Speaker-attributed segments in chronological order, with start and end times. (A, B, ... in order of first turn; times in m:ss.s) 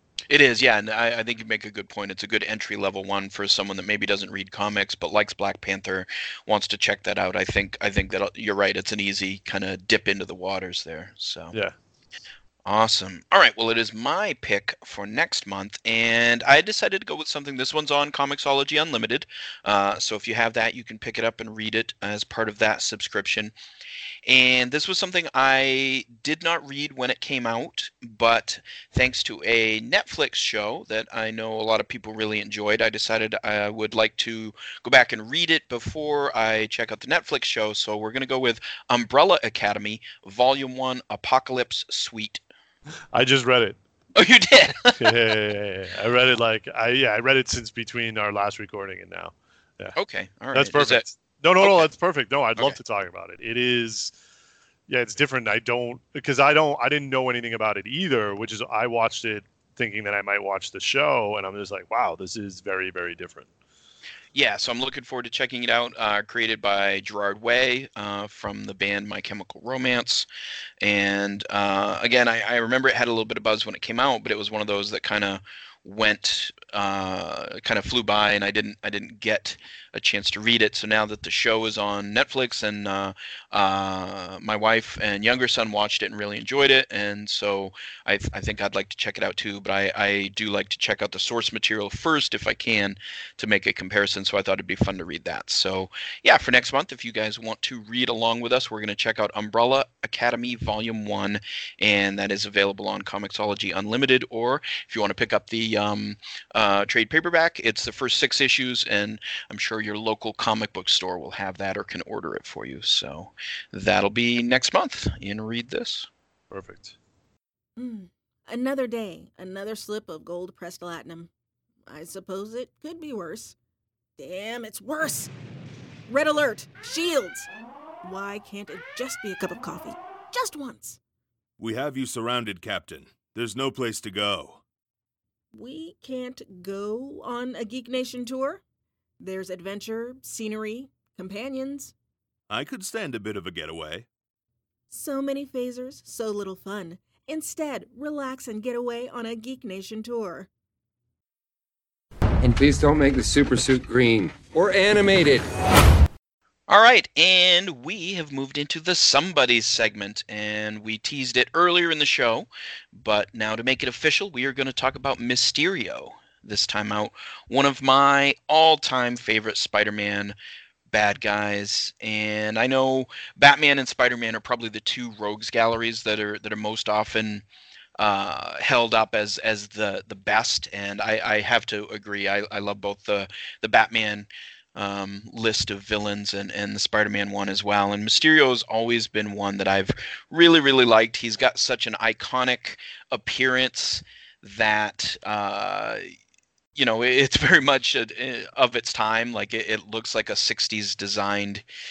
0:00.3-0:11.5 A
0:12.7-0:23.5 A
0:24.3-0:42.4 A
0:43.1-0:43.8 B
0:44.2-0:45.2 A
0:45.0-0:50.0 B
0:50.0-0:51.0 A
0:50.5-0:54.1 B
0:51.6-0:51.9 A
0:54.9-1:03.5 B
1:04.3-1:10.3 A
1:10.8-1:56.1 A
1:56.5-1:57.0 B
1:57.8-2:01.3 C
2:01.9-2:03.6 C
2:04.2-2:05.3 C
2:06.1-2:07.5 C
2:08.0-2:11.0 C
2:11.6-2:14.6 D
2:15.5-2:18.6 C
2:19.2-2:21.9 C
2:22.5-2:24.1 D
2:24.9-2:30.5 C
2:32.4-2:35.4 E
2:36.7-2:50.4 A
2:50.9-2:57.4 A
2:58.0-3:16.1 A
3:16.8-3:21.6 A